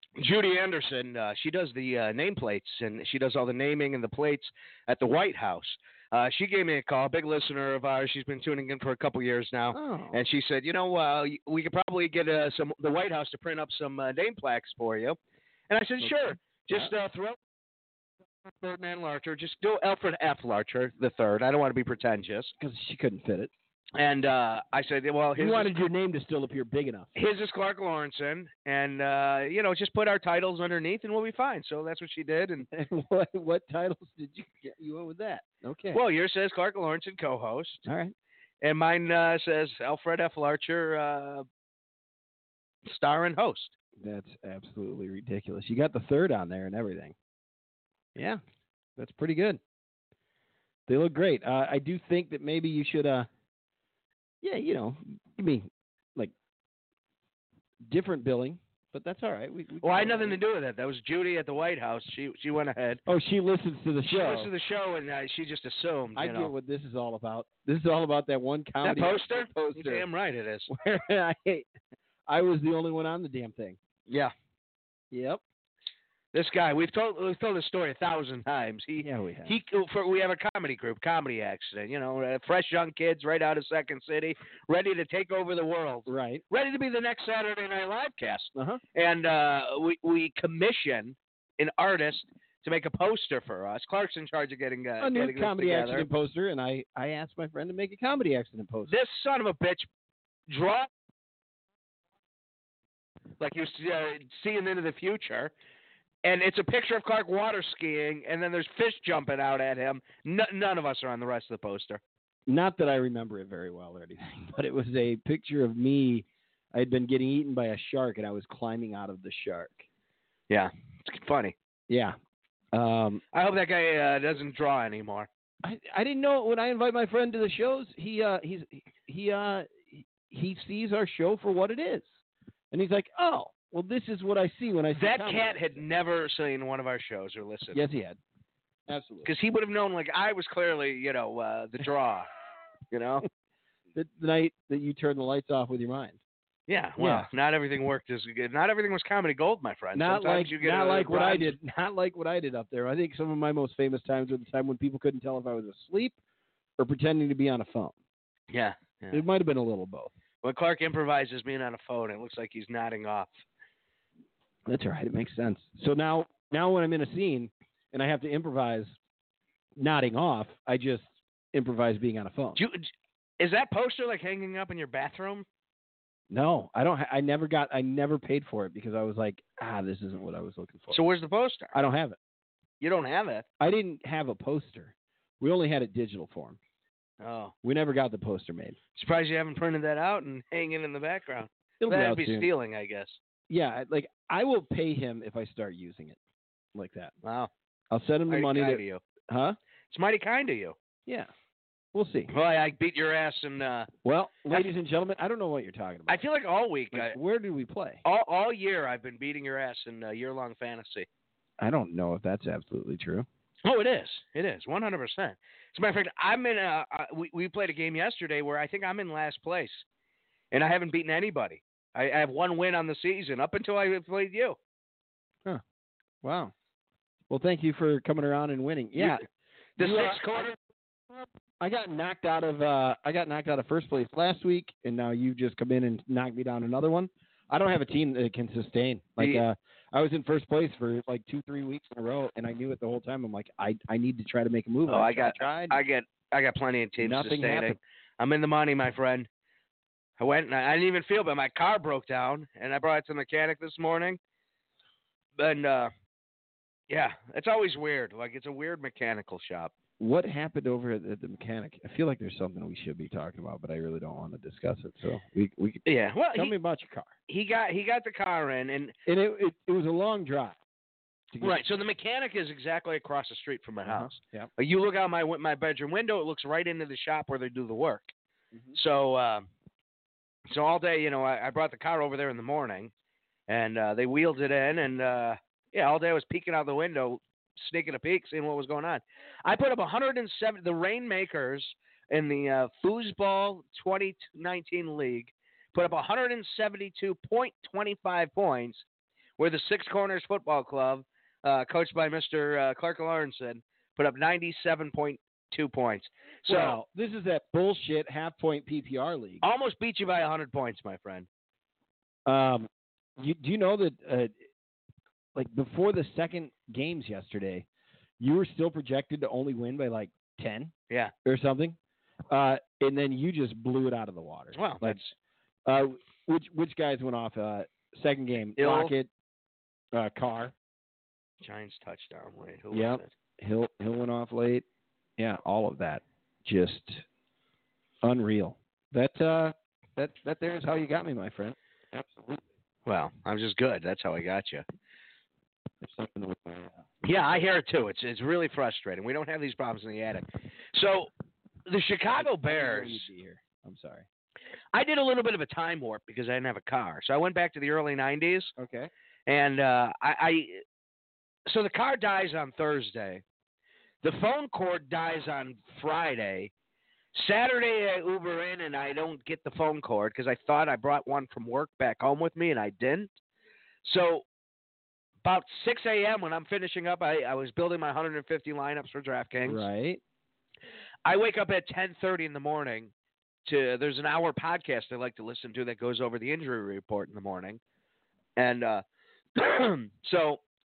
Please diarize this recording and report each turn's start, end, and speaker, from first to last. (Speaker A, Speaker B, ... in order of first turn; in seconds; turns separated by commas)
Speaker A: 0.2-15.2, Speaker B: 9.7-10.2, Speaker A: 15.7-17.4, Speaker B: 16.0-16.9, Speaker A: 18.4-22.5, Speaker B: 22.6-23.5, Speaker A: 23.9-25.7, Speaker B: 25.4-27.1, Speaker A: 27.1-32.7, Speaker B: 32.7-36.0, Speaker A: 35.9-37.8, Speaker B: 37.8-38.1, Speaker A: 38.6-41.5, Speaker A: 42.9-43.7, Speaker B: 44.0-47.1, Speaker B: 49.0-49.6, Speaker B: 50.9-53.3, Speaker B: 54.4-56.3, Speaker B: 57.8-60.4, Speaker A: 59.8-63.0, Speaker B: 63.1-64.5, Speaker A: 64.1-66.5, Speaker B: 66.2-70.1, Speaker A: 68.8-70.7, Speaker B: 70.7-71.7, Speaker B: 72.3-73.8, Speaker A: 74.1-74.3, Speaker B: 75.1-75.4, Speaker A: 76.3-96.0, Speaker B: 79.0-79.6, Speaker B: 86.1-86.4, Speaker B: 88.5-88.8, Speaker B: 95.0-98.9, Speaker A: 98.9-99.9, Speaker A: 100.5-100.9, Speaker A: 103.4-105.5, Speaker A: 106.2-112.0, Speaker B: 112.5-119.8, Speaker A: 120.5-121.5, Speaker B: 121.9-122.2, Speaker B: 122.7-123.2, Speaker A: 123.3-125.3, Speaker B: 125.6-132.1, Speaker B: 132.7-135.8, Speaker A: 134.9-137.8, Speaker B: 137.7-138.2, Speaker B: 138.9-139.3, Speaker A: 139.2-142.3, Speaker A: 142.9-143.2, Speaker B: 143.9-146.2, Speaker A: 146.7-151.6, Speaker B: 147.0-147.3, Speaker B: 149.9-156.2, Speaker B: 156.8-157.9, Speaker A: 158.5-159.2, Speaker B: 159.1-160.1, Speaker A: 160.4-163.4, Speaker B: 164.7-168.9, Speaker B: 169.8-172.6, Speaker A: 172.6-175.4, Speaker B: 176.3-181.0, Speaker A: 180.9-181.7, Speaker B: 181.7-182.2, Speaker A: 182.8-183.4, Speaker B: 183.6-186.6, Speaker A: 187.2-187.5, Speaker B: 187.6-188.8, Speaker A: 188.9-193.2, Speaker B: 191.8-192.5, Speaker B: 193.5-196.2, Speaker B: 196.7-197.1, Speaker A: 197.2-197.5, Speaker B: 197.9-199.6, Speaker A: 198.3-199.0, Speaker A: 199.9-200.8, Speaker B: 201.9-202.3, Speaker A: 202.3-203.9, Speaker B: 204.0-206.2, Speaker A: 206.1-207.2, Speaker B: 206.9-208.0, Speaker A: 208.0-211.1, Speaker B: 211.6-213.3, Speaker A: 213.6-219.8, Speaker A: 220.5-224.6, Speaker B: 226.2-226.5, Speaker B: 227.3-229.2, Speaker A: 228.9-229.2, Speaker A: 229.8-230.5, Speaker B: 229.8-230.6, Speaker B: 231.1-245.8, Speaker A: 239.2-239.4, Speaker A: 244.9-249.3, Speaker B: 247.0-247.8, Speaker A: 250.2-254.2, Speaker A: 255.4-255.9, Speaker A: 256.9-259.7, Speaker B: 260.0-267.1, Speaker A: 265.8-266.5, Speaker A: 267.3-268.9, Speaker B: 269.1-270.6, Speaker B: 271.3-271.6, Speaker A: 271.4-278.1, Speaker B: 273.9-274.5, Speaker A: 278.7-279.5, Speaker A: 280.5-282.9, Speaker A: 283.5-298.8, Speaker A: 299.4-306.8, Speaker B: 306.4-309.4, Speaker A: 309.4-311.3, Speaker B: 312.2-314.4, Speaker B: 315.3-317.6, Speaker B: 318.2-320.7, Speaker B: 321.2-321.8, Speaker B: 322.3-325.0, Speaker A: 324.5-325.1, Speaker B: 325.6-329.1, Speaker A: 328.6-328.9, Speaker B: 329.9-330.5, Speaker A: 331.4-333.1, Speaker B: 332.7-334.6, Speaker B: 335.2-337.0, Speaker B: 338.0-342.4, Speaker A: 342.9-344.6, Speaker B: 345.8-346.8, Speaker A: 347.0-351.1, Speaker A: 351.6-353.1, Speaker B: 352.1-354.1, Speaker A: 354.7-358.5, Speaker B: 358.6-358.9, Speaker A: 359.3-360.6, Speaker A: 361.4-363.2, Speaker A: 364.0-366.5, Speaker A: 367.1-373.1, Speaker A: 373.8-374.2, Speaker A: 375.2-379.6, Speaker B: 379.4-380.0, Speaker A: 381.0-382.9, Speaker A: 383.4-387.6, Speaker A: 388.4-388.8, Speaker A: 389.4-390.4